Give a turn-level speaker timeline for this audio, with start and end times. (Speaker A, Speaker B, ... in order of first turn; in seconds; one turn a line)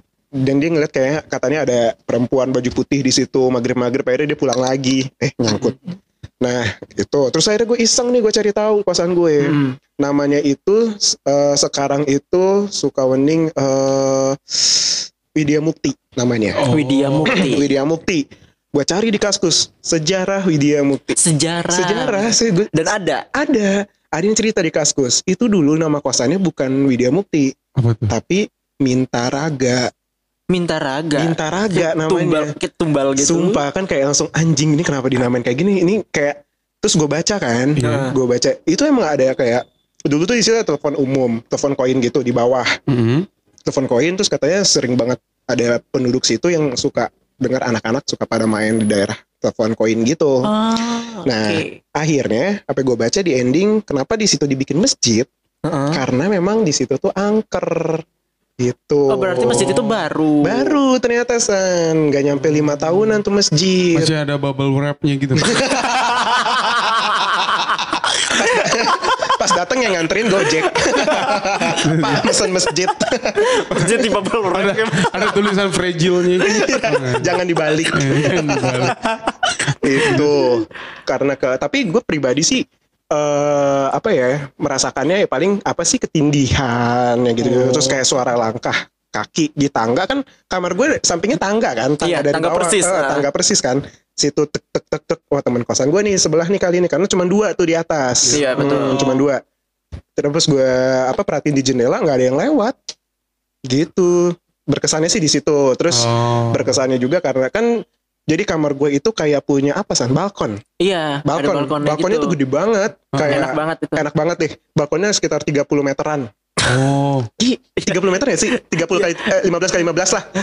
Speaker A: 0.4-5.8
Speaker A: 6.4-16.6
Speaker B: 9.4-9.7
Speaker C: 16.6-17.4
Speaker B: 16.6-17.6
Speaker A: 17.3-21.2
Speaker B: 21.2-23.2
Speaker A: 21.7-27.5
Speaker C: 27.8-28.1
Speaker A: 28.1-29.9
Speaker B: 30.5-33.6
Speaker A: 31.1-32.5
Speaker A: 33.2-42.7
Speaker C: 37.8-38.1
Speaker B: 37.8-38.1
Speaker C: 42.9-43.3
Speaker A: 43.6-50.5
Speaker B: 50.4-51.8
Speaker A: 51.2-55.3
Speaker B: 55.6-56.0
Speaker A: 55.9-58.0
Speaker A: 58.6-64.1
Speaker B: 59.1-60.8
Speaker C: 63.9-65.6
Speaker A: 65.4-66.2
Speaker B: 66.1-69.3
Speaker A: 68.3-73.9
Speaker C: 71.7-72.3
Speaker B: 73.4-75.4
Speaker C: 74.5-77.3
Speaker A: 76.4-78.9
Speaker C: 77.9-79.0
Speaker C: 79.7-80.3
Speaker A: 79.8-99.4
Speaker B: 87.4-88.0
Speaker B: 92.0-93.2
Speaker B: 98.3-99.2
Speaker A: 100.2-102.8
Speaker A: 103.7-107.7
Speaker C: 105.9-106.7
Speaker A: 108.3-110.6
Speaker B: 110.8-112.3
Speaker A: 111.2-116.3
Speaker C: 113.1-113.5
Speaker B: 113.2-114.0
Speaker C: 116.6-117.3
Speaker B: 117.4-119.2
Speaker A: 117.8-120.3